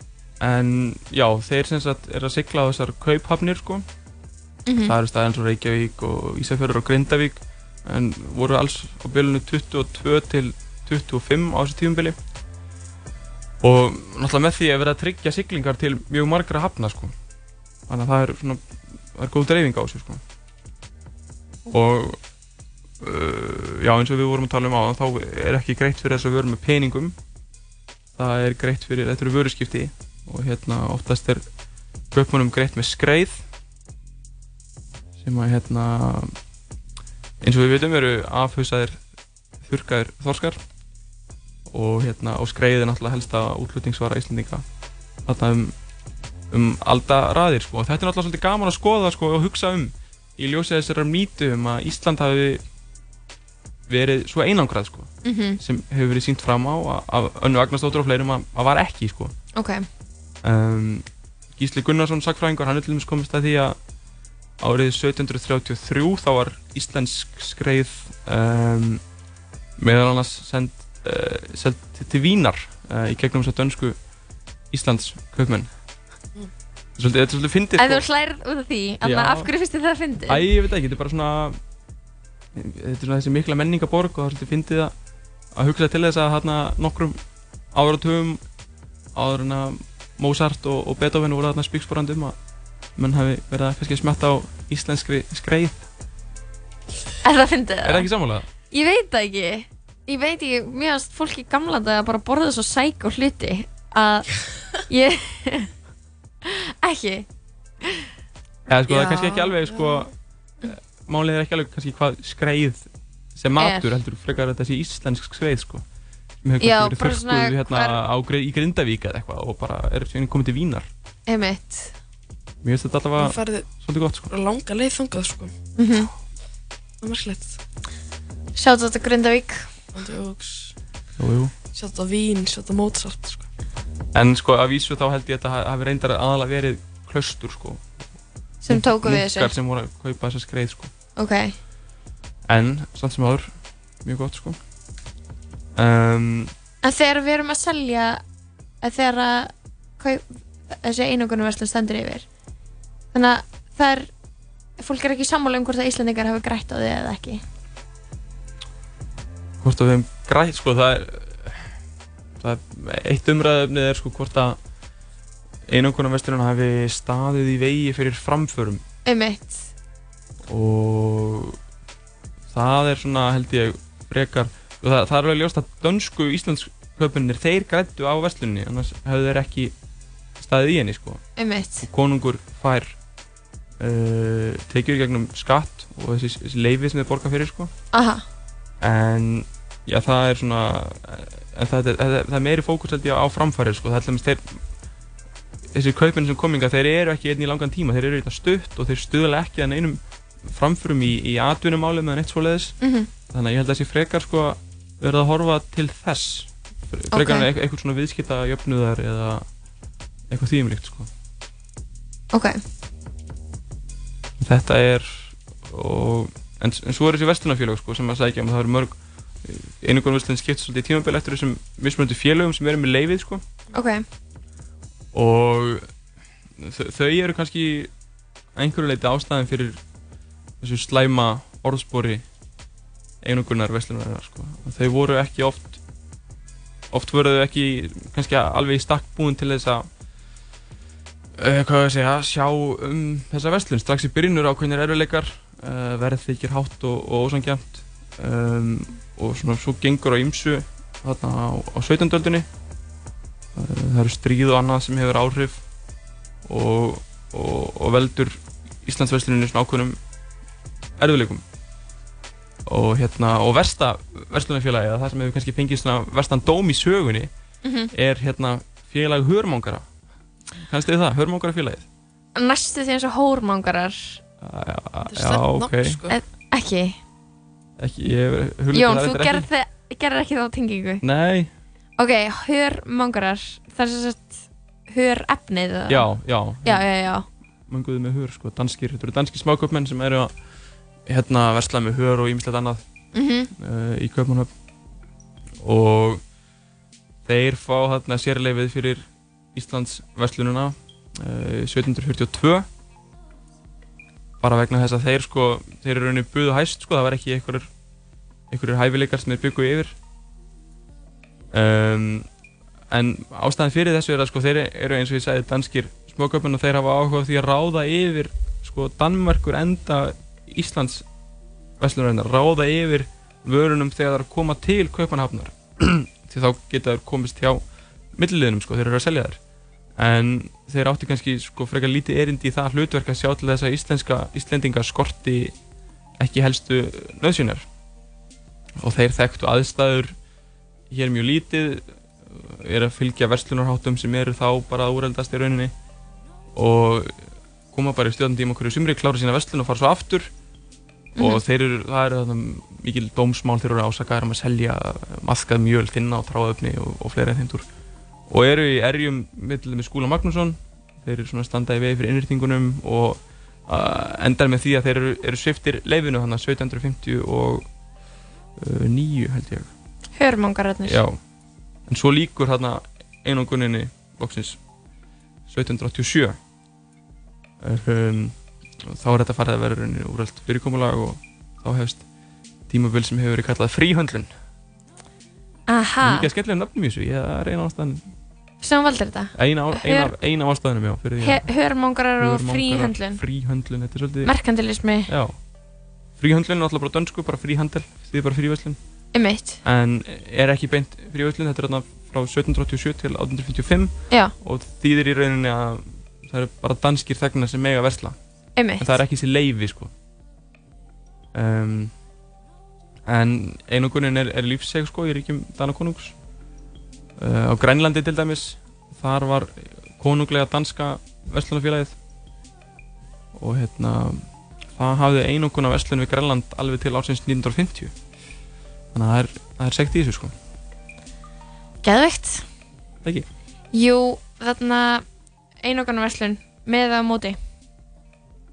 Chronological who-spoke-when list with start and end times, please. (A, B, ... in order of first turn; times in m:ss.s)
0:00.4-0:03.8 A
0:04.7-0:04.9 B
0:04.7-0:12.2 A
0:13.6-0:17.1 A
0:17.9-0:18.6 A
0:19.1-0:20.2 A
0:21.7-0:22.2 A
0:23.0-0:27.2 A
0:28.2-0:31.4 A
0:32.1-0:33.4 A
0:35.2-0:36.3 A
0:37.4-0:39.0 A
0:39.6-0:40.6 A
0:41.7-0:44.6 A
0:45.2-0:45.7 A
0:46.5-0:52.6 A
0:53.9-0:59.3 A
0:55.2-0:55.6 B
0:59.5-0:59.8 B
1:00.4-1:01.0 A
1:01.6-1:03.8 A
1:04.6-1:09.0 A
1:09.8-1:14.0 A
1:14.7-1:15.7 A
1:17.0-1:18.0 A
1:17.8-1:20.5 B
1:19.0-1:19.5 A
1:20.3-1:21.6 A
1:22.5-1:24.9 A
1:25.5-1:27.2 A
1:27.7-1:28.4 A
1:29.1-1:32.4 A
1:33.0-1:35.8 A
1:37.2-1:38.1 B
1:37.8-1:38.5 A
1:38.7-1:45.7 B
1:46.4-1:47.3 B
1:47.8-1:48.1 B
1:48.7-1:50.1 A
1:48.9-1:50.1 C
1:50.6-1:55.8 A
1:53.6-1:53.9 B
1:56.4-2:00.9 A
1:56.6-1:58.0 B
2:01.3-2:01.9 B
2:02.6-2:04.3 A
2:03.2-2:03.7 C
2:04.3-2:05.5 C
2:05.8-2:06.1 B
2:07.0-2:07.6 C
2:08.6-2:09.7 B
2:09.9-2:10.7 C
2:11.2-2:11.5 A
2:11.7-2:13.4 C
2:14.1-2:17.8 A
2:18.6-2:19.5 B
2:18.7-2:20.9 A
2:21.2-2:21.5 B
2:22.5-2:23.5 A
2:24.0-2:24.6 A
2:25.8-2:26.5 A
2:26.8-2:28.2 B
2:28.8-2:32.2 B
2:33.1-2:34.1 B
2:34.8-2:37.4 B
2:39.6-2:41.7 A
2:42.4-2:44.6 A
2:45.7-2:48.8 A
2:49.0-2:49.7 B
2:50.4-2:51.6 A
2:52.5-2:59.7 A
3:00.4-3:01.2 A
3:01.4-3:01.9 B
3:01.8-3:03.0 A
3:03.8-3:07.7 A
3:07.9-3:08.2 B
3:08.8-3:14.6 A
3:15.7-3:22.8 A
3:22.8-3:23.1 B
3:23.3-3:29.4 A
3:27.1-3:27.5 B
3:30.3-3:31.1 A
3:32.3-3:32.6 B
3:34.4-3:43.4 A
3:43.7-3:44.0 B
3:45.1-3:45.9 A
3:46.6-3:47.9 A
3:48.5-3:49.8 A
3:50.6-3:52.2 A
3:53.2-3:55.8 A
3:56.9-3:59.8 A
4:01.4-4:12.5 A
4:13.5-4:15.6 A
4:16.4-4:20.0 A
4:21.0-4:21.4 A
4:22.6-4:27.3 A
4:27.6-4:27.9 B
4:27.9-4:29.8 A
4:30.6-4:31.8 A
4:32.4-4:34.2 B
4:34.4-4:36.0 A
4:35.1-4:36.2 C
4:36.1-4:37.0 B
4:37.8-4:39.5 A
4:38.7-4:41.0 B
4:41.0-4:41.5 A
4:42.0-4:46.1 B
4:45.9-4:46.9 A
4:46.6-4:47.3 B
4:47.7-4:50.3 A
4:51.1-4:52.8 A
4:53.1-4:53.5 B
4:53.5-4:54.5 A
4:55.6-4:56.2 A
4:57.2-5:02.6 A
5:04.4-5:07.7 A
5:08.5-5:10.0 A
5:11.5-5:12.3 A
5:12.9-5:21.0 A
5:21.8-5:27.6 A
5:28.1-5:29.4 A
5:30.0-5:35.5 A
5:36.2-5:37.7 A
5:38.8-5:40.1 A
5:40.9-5:45.7 A
5:46.5-5:47.2 A
5:47.7-5:50.3 A
5:51.2-5:51.4 B
5:51.2-5:57.6 A
5:58.3-6:07.6 A
6:08.6-6:09.7 A
6:10.2-6:11.0 B
6:10.8-6:11.2 A
6:11.9-6:14.6 A
6:15.5-6:16.4 A
6:17.6-6:22.0 A
6:22.7-6:24.3 A
6:25.7-6:26.3 B
6:26.0-6:28.1 A
6:28.6-6:30.1 B
6:29.3-6:31.4 A
6:31.2-6:33.2 B
6:32.2-6:34.3 A
6:34.2-6:35.1 B
6:35.1-6:35.4 A
6:36.2-6:38.8 A
6:39.1-6:39.6 B
6:39.6-6:48.2 A
6:48.6-6:49.0 B
6:48.8-6:49.9 A
6:51.3-6:51.9 A
6:53.0-6:56.2 A
6:57.2-7:02.0 A
7:03.3-7:07.9 A
7:08.9-7:10.3 A
7:11.8-7:12.4 B
7:13.7-7:15.0 B
7:15.6-7:17.4 B